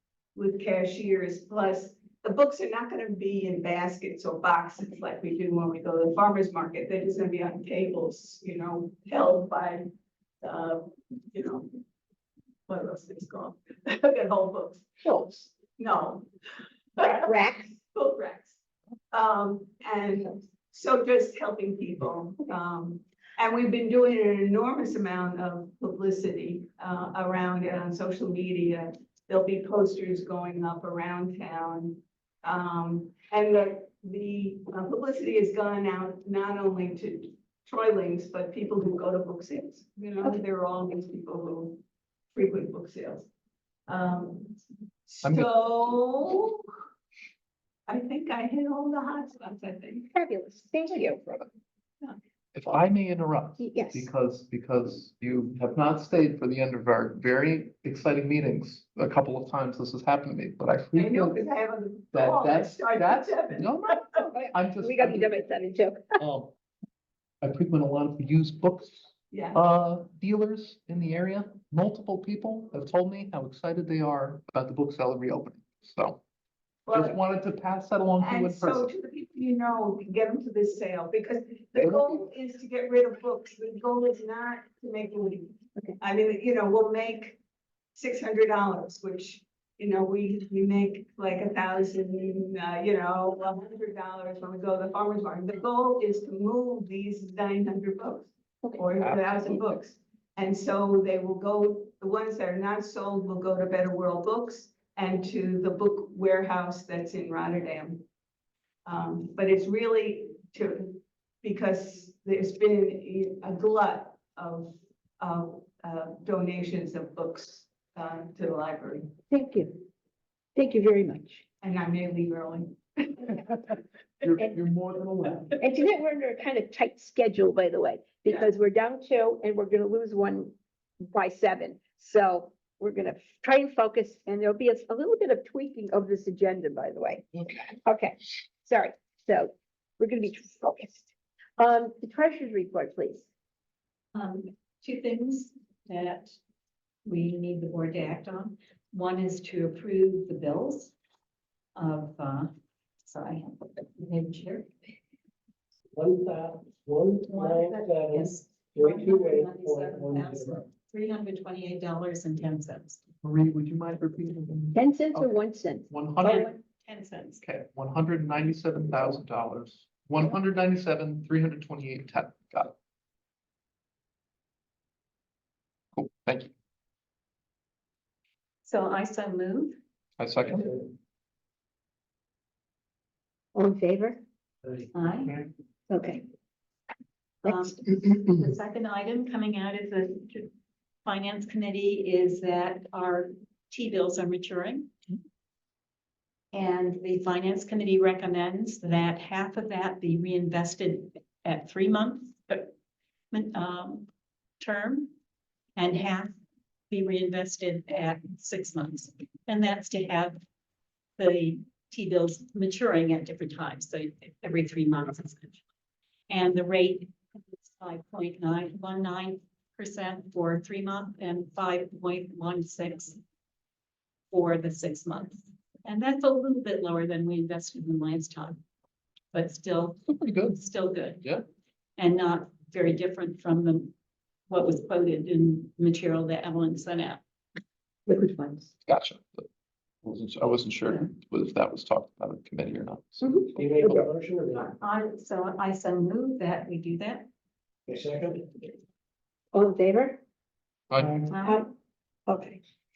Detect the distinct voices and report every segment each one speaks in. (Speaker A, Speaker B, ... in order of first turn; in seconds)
Speaker A: 0.3-9.9, 10.4-11.7, 12.7-16.3, 16.9-18.6, 19.1-41.8, 42.3-43.3, 43.9-44.5, 45.1-46.6, 47.9-50.1, 60.9-64.2, 69.3-69.6, 76.8-77.2, 78.2-87.4, 87.9-108.0, 108.8-119.1, 121.6-123.5
Speaker B: 15.0-15.5, 45.2-46.0, 50.9-51.5, 52.5-61.4, 62.1-65.3, 66.2-66.5, 67.4-76.2, 76.9-78.9, 81.8-82.0, 99.0-99.7, 124.2-125.6, 163.2-166.5, 167.4-172.7, 175.9-176.5, 180.2-180.7, 230.1-230.6, 238.9-239.5, 240.0-243.5
Speaker C: 17.0-17.7, 50.1-51.2, 53.6-54.1, 64.2-66.2, 119.3-119.8, 120.5-121.4, 125.6-130.5, 131.1-143.2, 164.7-166.5, 183.5-184.2, 185.9-186.2, 187.4-188.5, 238.1-238.7, 243.2-244.1, 249.5-250.2, 251.4-251.7, 252.3-252.6
Speaker D: 144.1-146.4, 147.0-150.9, 151.7-152.5, 153.0-154.7, 157.3-163.0, 166.2-167.4, 178.6-179.8, 184.9-185.4, 187.4-190.5, 191.0-194.9, 196.5-202.7, 203.3-204.1, 204.6-205.1, 205.8-206.3, 206.9-210.4, 211.2-215.6, 216.3-223.2, 224.3-228.6, 229.3-231.3, 232.0-233.9, 234.5-237.2, 244.5-247.3, 251.3-251.6
Speaker E: 155.9-160.6, 184.6-185.3, 243.6-244.7, 247.9-248.7